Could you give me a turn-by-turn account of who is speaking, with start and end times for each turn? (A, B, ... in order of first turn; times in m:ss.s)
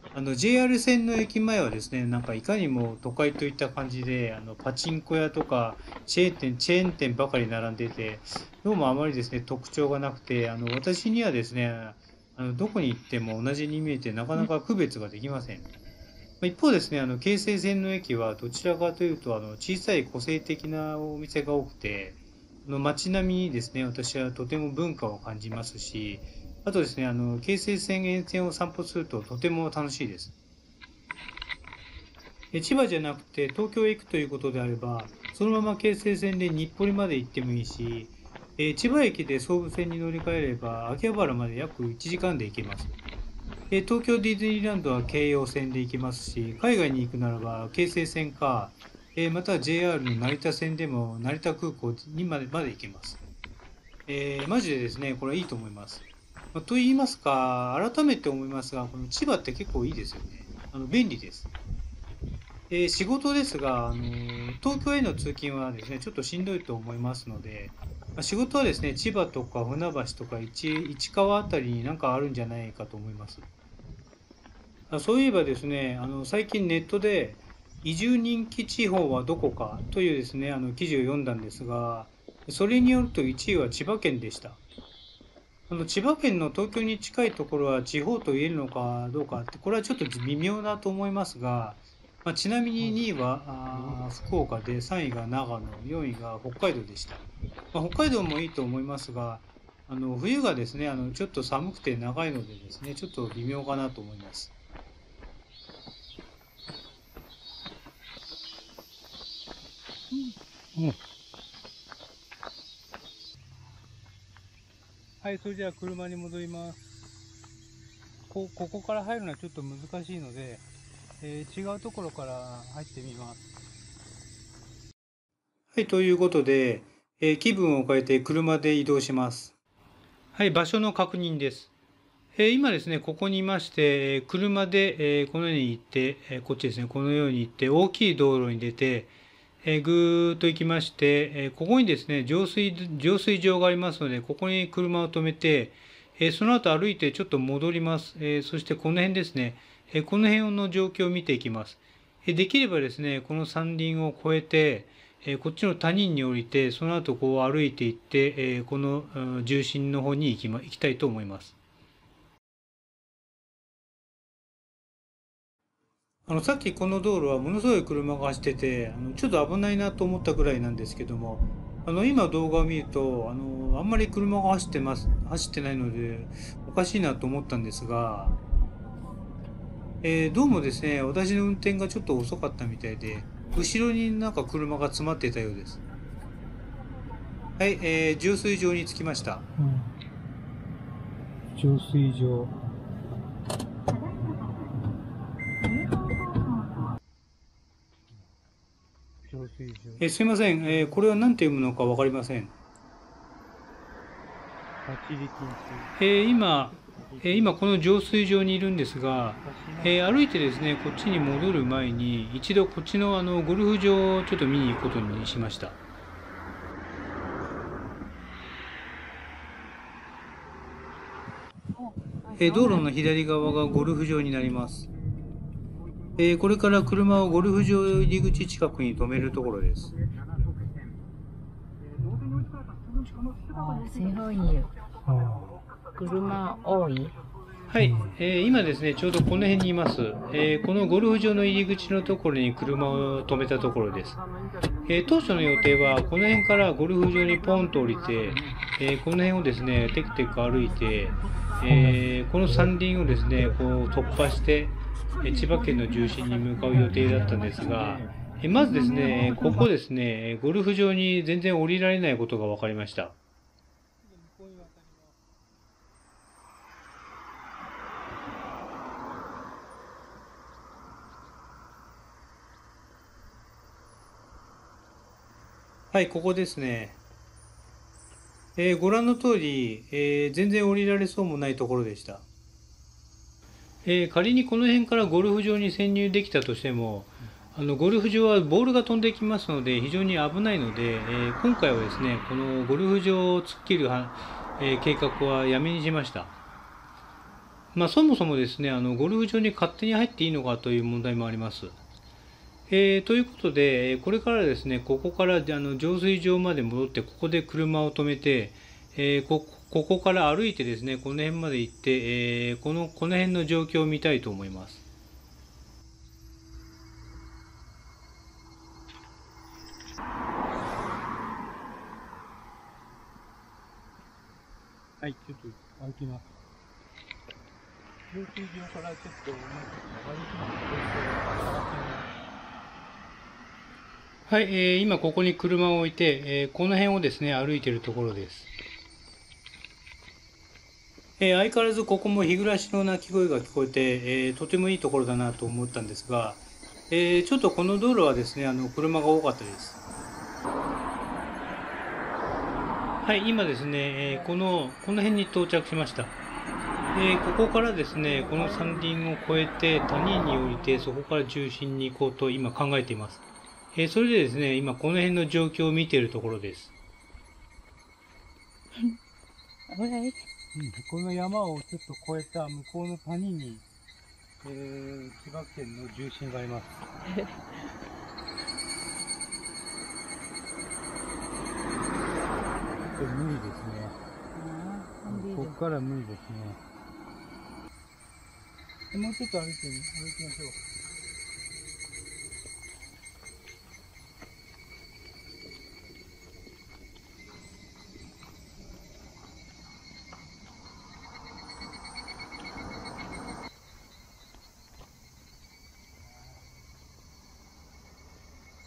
0:00.1-0:15.7 A
0:16.4-0:30.3 A
0:32.5-0:43.0 A
0:43.7-0:53.2 A
0:54.1-1:01.5 A
1:02.7-1:13.5 A
1:14.9-1:24.6 A
1:25.7-1:44.5 A
1:32.8-1:33.1 B
1:33.7-1:34.0 B
1:50.1-1:51.0 B
1:55.2-1:56.8 B
1:58.3-2:00.6 B
2:01.2-2:03.5 B
2:05.7-2:09.5 A
2:10.3-2:11.7 A
2:12.4-2:19.1 A
2:19.6-2:41.6 A
2:46.3-2:58.4 A
3:00.0-3:05.8 A
3:07.6-3:09.5 A
3:09.6-3:09.9 B
3:11.6-3:12.5 B
3:19.2-3:20.1 B
3:20.0-3:22.5 A
3:20.6-3:21.0 B
3:24.8-3:25.9 B
3:26.0-3:35.8 A
3:27.0-3:27.6 B
3:29.4-3:30.1 B
3:41.8-3:42.9 C
3:42.4-3:44.9 A
3:46.2-3:49.9 A
3:53.5-3:54.8 C
3:55.1-3:55.6 B
3:56.0-3:57.2 C
3:57.7-4:04.2 A
4:04.8-4:23.2 A
4:24.0-4:25.2 B
4:35.9-4:37.0 A
4:38.6-4:42.2 A
4:43.8-4:56.3 A
4:57.7-5:01.8 A
5:02.7-5:14.8 A
5:25.0-5:26.3 B
5:28.1-5:32.1 B
5:34.3-5:38.5 A
5:41.2-5:49.8 A
5:53.0-5:56.2 A
5:56.9-6:06.7 A
5:58.1-5:58.9 B
6:09.7-6:10.2 C
6:10.5-6:13.6 B
6:14.4-6:16.8 B
6:17.1-6:17.6 C
6:22.9-6:24.0 B
6:24.4-6:25.6 C
6:25.1-6:26.6 B
6:28.9-6:30.6 B